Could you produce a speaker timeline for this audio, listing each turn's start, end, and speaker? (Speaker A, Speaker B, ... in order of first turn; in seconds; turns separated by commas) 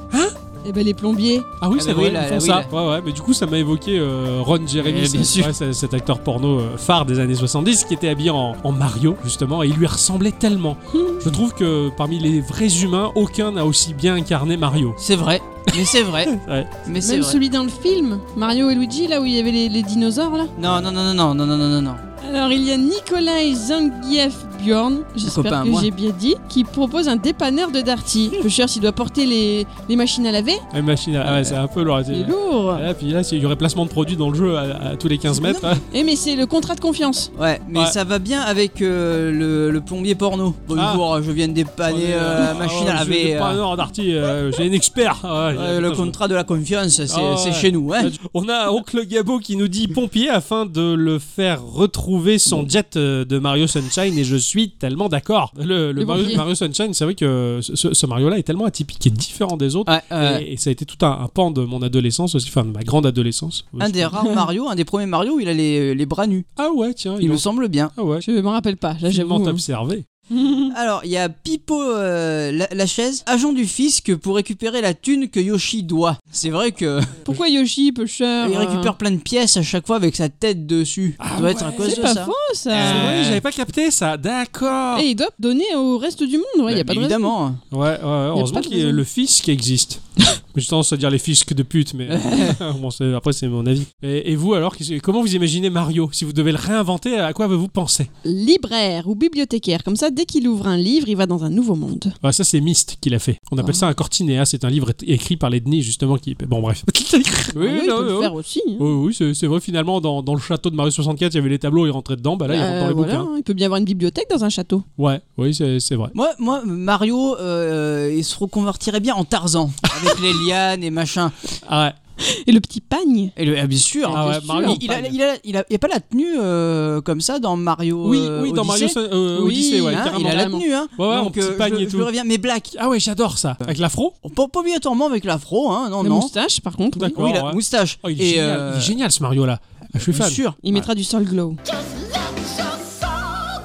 Speaker A: 0.6-1.5, Speaker B: 1.6-15.0, Speaker C: 1.8-2.7, Speaker C: 4.8-5.5, Speaker A: 10.9-11.2, Speaker C: 15.0-16.3, Speaker B: 15.7-16.7, Speaker C: 16.9-17.4, Speaker A: 17.0-20.5, Speaker C: 20.6-22.0, Speaker A: 22.2-30.6, Speaker C: 25.2-25.9, Speaker B: 30.7-35.8, Speaker C: 31.3-31.5, Speaker A: 32.1-32.9, Speaker A: 35.3-37.3, Speaker C: 37.4-43.6, Speaker B: 40.7-41.0, Speaker B: 41.9-46.2, Speaker C: 45.5-48.1, Speaker B: 47.1-64.2, Speaker A: 56.0-56.4, Speaker C: 59.9-60.5, Speaker C: 63.8-66.5, Speaker B: 66.6-68.3, Speaker C: 67.2-67.9, Speaker A: 68.2-69.6, Speaker B: 69.0-70.1, Speaker A: 70.3-70.7, Speaker C: 70.7-77.4, Speaker A: 77.3-78.9, Speaker C: 78.4-83.4, Speaker B: 81.2-82.1, Speaker A: 81.7-83.3, Speaker B: 82.7-85.1, Speaker A: 85.0-87.3, Speaker C: 86.7-87.6, Speaker B: 87.7-90.0, Speaker A: 88.3-89.0, Speaker B: 90.5-98.1, Speaker C: 92.1-92.6, Speaker A: 98.2-102.2, Speaker B: 102.2-113.3, Speaker A: 103.6-103.9, Speaker A: 107.5-108.9, Speaker A: 112.5-114.9, Speaker B: 115.0-116.2, Speaker C: 116.1-121.4, Speaker B: 121.7-122.0, Speaker A: 122.2-123.3, Speaker C: 123.4-132.7, Speaker A: 124.0-124.8, Speaker B: 124.1-125.2, Speaker B: 128.0-132.1, Speaker A: 129.3-130.7, Speaker B: 132.7-134.1, Speaker C: 134.2-136.3, Speaker A: 136.0-137.2, Speaker B: 136.9-140.4, Speaker C: 137.1-138.9, Speaker C: 140.1-140.8, Speaker A: 140.6-141.6